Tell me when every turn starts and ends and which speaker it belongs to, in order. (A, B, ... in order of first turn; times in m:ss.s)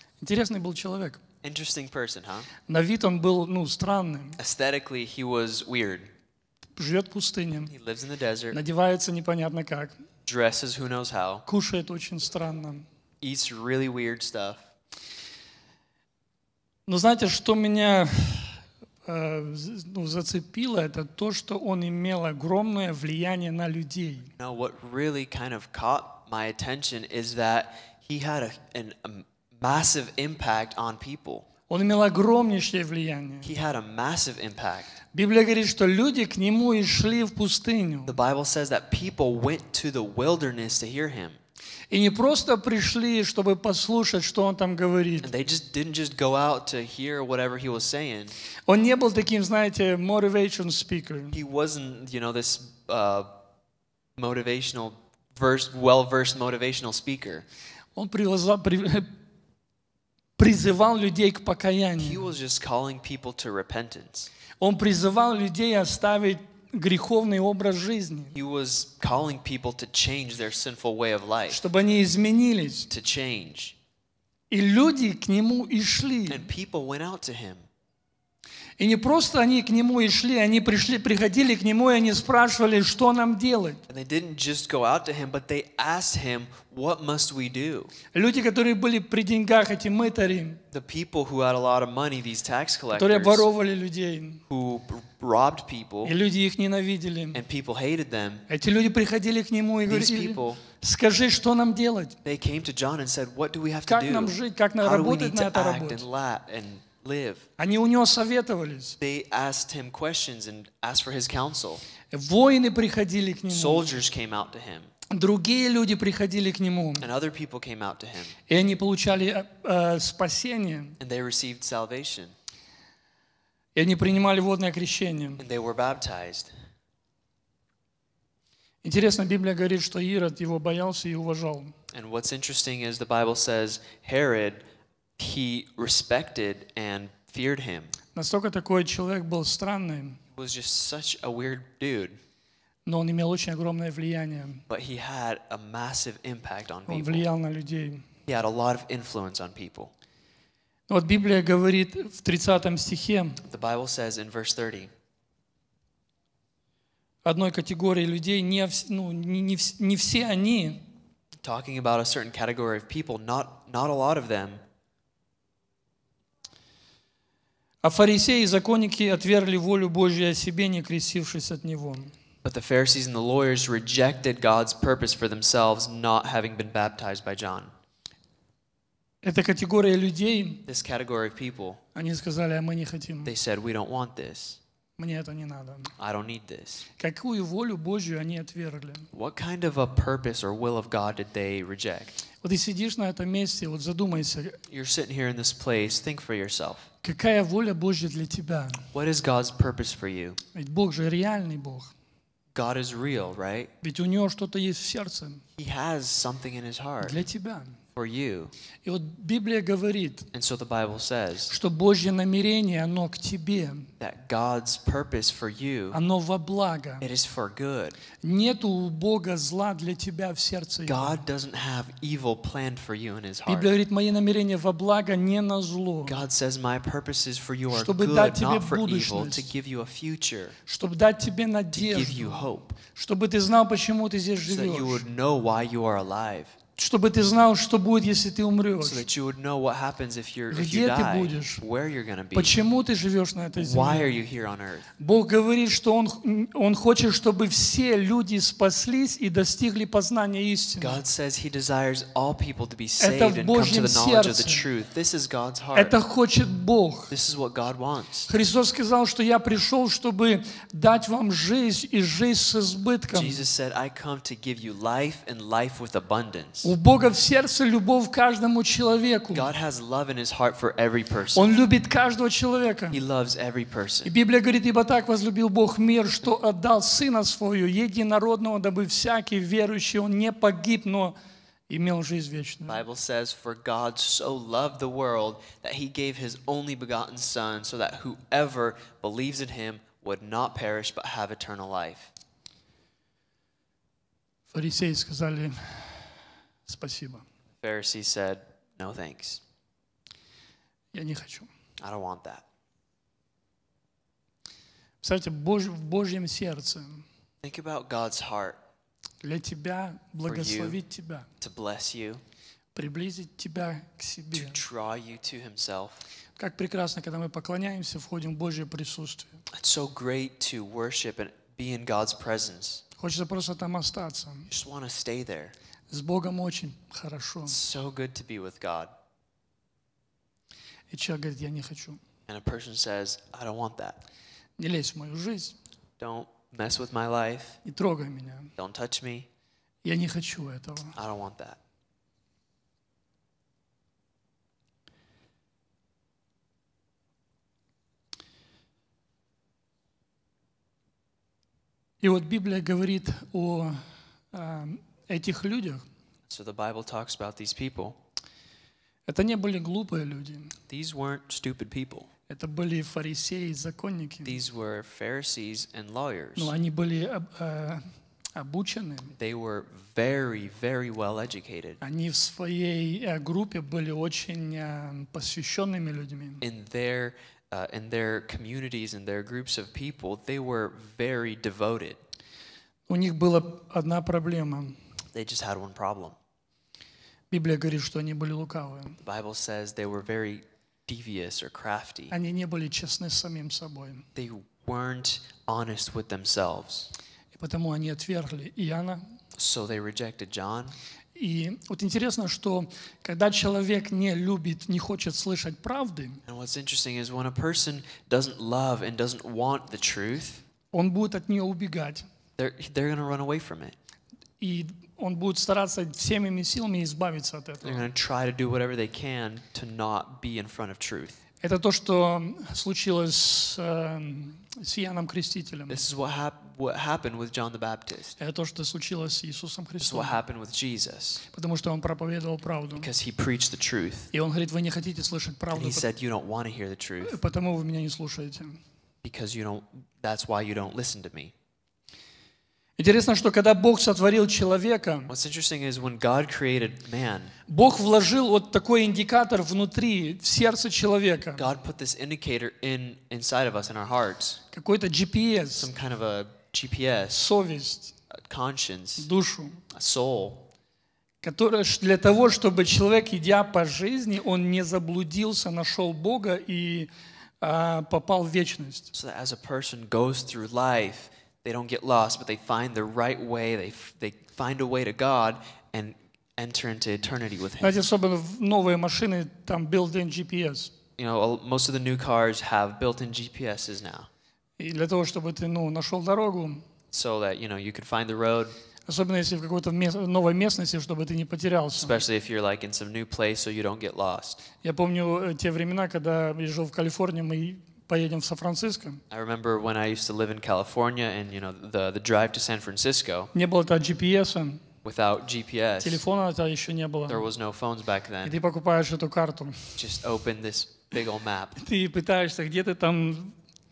0:00.2-0:01.2 A
0:01.4-0:02.5 B
0:02.7-0:04.4 A
0:04.4-0:06.1 B
0:06.8-0:07.7 A
0:07.7-0:08.6 B
0:08.5-0:10.0 A
0:10.3-0:11.4 B
0:11.5-0:12.9 A
0:13.2-0:14.7 B
0:16.9-0:24.3 A
0:24.4-0:31.5 B
0:31.7-0:33.5 A
0:33.4-0:34.9 B
0:35.1-0:38.2 A
0:38.1-0:41.4 B
0:41.9-0:45.3 A
0:45.2-0:48.4 B
0:48.7-0:51.4 A
0:51.3-0:53.3 B
0:54.2-0:57.5 B
0:58.0-0:59.1 A
1:00.4-1:02.3 A
1:02.0-1:04.3 B
1:04.6-1:08.4 A
1:08.3-1:11.6 B
1:11.5-1:12.9 A
1:12.9-1:13.8 B
1:14.5-1:16.5 A
1:16.3-1:17.7 B
1:18.8-1:23.8 A
1:23.9-1:27.9 B
1:28.1-1:30.6 A
1:30.7-1:33.5 B
1:32.9-1:34.4 A
1:34.5-1:36.1 B
1:36.0-1:37.4 A
1:37.3-1:38.4 B
1:38.5-1:42.1 A
1:39.9-1:40.6 B
1:42.2-1:47.5 B
1:43.9-1:46.0 A
1:47.6-1:49.0 A
1:49.0-1:51.8 B
1:52.1-1:53.9 A
1:53.5-1:54.9 B
1:55.1-1:57.1 A
1:57.0-1:58.4 B
1:58.5-2:01.0 A
2:01.0-2:02.4 B
2:03.8-2:05.4 A
2:05.4-2:06.5 B
2:08.8-2:11.7 A
2:11.9-2:14.6 B
2:15.2-2:17.9 B
2:18.1-2:20.2 A
2:20.3-2:22.2 B
2:22.9-2:24.6 A
2:24.7-2:27.2 B
2:26.9-2:28.0 A
2:28.2-2:29.9 B
2:30.9-2:33.4 A
2:33.4-2:34.9 B
2:37.2-2:40.9 A
2:41.4-2:44.6 B
2:47.8-2:52.1 A
2:52.4-2:57.7 B
2:59.2-3:00.6 A
3:00.6-3:01.8 B
3:02.0-3:03.3 A
3:03.2-3:04.6 B
3:05.0-3:05.9 A
3:06.0-3:06.9 B
3:07.0-3:09.1 A
3:09.1-3:12.2 B
3:12.4-3:14.6 A
3:14.7-3:16.9 B
3:17.0-3:18.9 A
3:18.9-3:20.4 B
3:20.5-3:21.9 A
3:22.5-3:23.7 B
3:23.8-3:25.4 A
3:25.6-3:27.2 B
3:27.0-3:27.8 A
3:28.0-3:28.5 B
3:28.8-3:30.3 A
3:30.3-3:31.5 B
3:31.5-3:33.9 A
3:34.0-3:36.0 B
3:35.9-3:37.1 A
3:37.0-3:38.0 B
3:38.2-3:41.2 A
3:40.8-3:43.7 B
3:43.5-3:46.2 A
3:46.1-3:50.6 B
3:47.7-3:49.5 A
3:50.6-3:55.0 A
3:51.7-3:52.8 B
3:54.5-3:56.6 B
3:56.8-3:59.0 A
3:58.8-4:02.6 B
4:00.5-4:01.6 A
4:02.3-4:04.2 A
4:03.6-4:04.9 B
4:05.0-4:11.0 A
4:10.8-4:16.0 B
4:13.0-4:14.6 A
4:15.8-4:17.1 A
4:17.1-4:18.3 B
4:18.3-4:23.4 A
4:23.1-4:26.7 B
4:26.6-4:29.5 A
4:29.3-4:31.5 B
4:31.3-4:33.0 A
4:32.9-4:34.1 B
4:34.0-4:41.1 A
4:41.7-4:42.8 A
4:42.6-4:52.1 B
4:54.5-4:57.2 A
4:57.6-4:59.4 B
5:00.9-5:01.5 A
5:01.8-5:02.4 B
5:05.0-5:07.0 A
5:07.4-5:08.6 B
5:09.2-5:11.3 A
5:10.2-5:10.8 B
5:11.4-5:12.2 B
5:12.8-5:14.6 A
5:14.3-5:16.0 B
5:16.4-5:19.4 A
5:19.5-5:22.8 B
5:23.0-5:24.5 A
5:24.5-5:25.5 B
5:25.9-5:27.6 A
5:27.5-5:28.9 B
5:30.9-5:32.0 A
5:32.3-5:34.0 B
5:34.6-5:35.6 A
5:36.0-5:37.6 B
5:37.6-5:38.5 A
5:38.6-5:39.3 B
5:39.8-5:41.0 A
5:41.0-5:41.6 B
5:52.0-5:55.8 A
5:56.3-5:58.0 B
5:59.1-6:00.6 A
6:00.7-6:02.1 B
6:02.3-6:04.4 A
6:04.2-6:06.5 B
6:06.4-6:09.1 A
6:09.1-6:11.8 B
6:11.8-6:16.4 A
6:16.4-6:22.0 B
6:22.9-6:24.8 A
6:25.1-6:26.2 B
6:27.3-6:29.0 A
6:29.0-6:32.1 B
6:32.1-6:34.1 A
6:34.2-6:36.9 B
6:37.4-6:39.1 A
6:39.4-6:40.8 B
6:41.1-6:46.2 A
6:46.3-6:50.4 B
6:50.7-6:52.0 A
6:52.4-6:53.8 B
6:54.4-6:57.9 A
6:57.6-7:01.2 B
7:01.4-7:05.8 A
7:05.7-7:08.2 B
7:08.2-7:10.2 A
7:09.8-7:11.2 B
7:11.3-7:12.9 A
7:12.8-7:14.1 B
7:14.1-7:15.8 A
7:15.5-7:17.2 B
7:17.0-7:18.6 A
7:19.0-7:21.3 B
7:22.8-7:25.1 A
7:25.1-7:27.3 B
7:27.5-7:31.5 A
7:31.4-7:34.4 B
7:34.5-7:35.7 A
7:35.6-7:37.2 B
7:37.1-7:38.0 A
7:38.1-7:39.1 B
7:39.0-7:39.6 A
7:39.7-7:40.5 B
7:41.2-7:48.9 A
7:48.9-7:57.8 B
7:57.6-8:00.7 A
8:01.0-8:04.1 B
8:04.6-8:06.6 A
8:06.9-8:08.6 B
8:08.9-8:12.0 A
8:11.8-8:14.4 B
8:14.6-8:19.0 A
8:19.1-8:23.3 B
8:23.3-8:24.6 A
8:24.8-8:26.0 B
8:25.8-8:27.3 A
8:27.1-8:28.4 B
8:28.2-8:29.8 A
8:29.8-8:31.6 B
8:31.6-8:33.4 A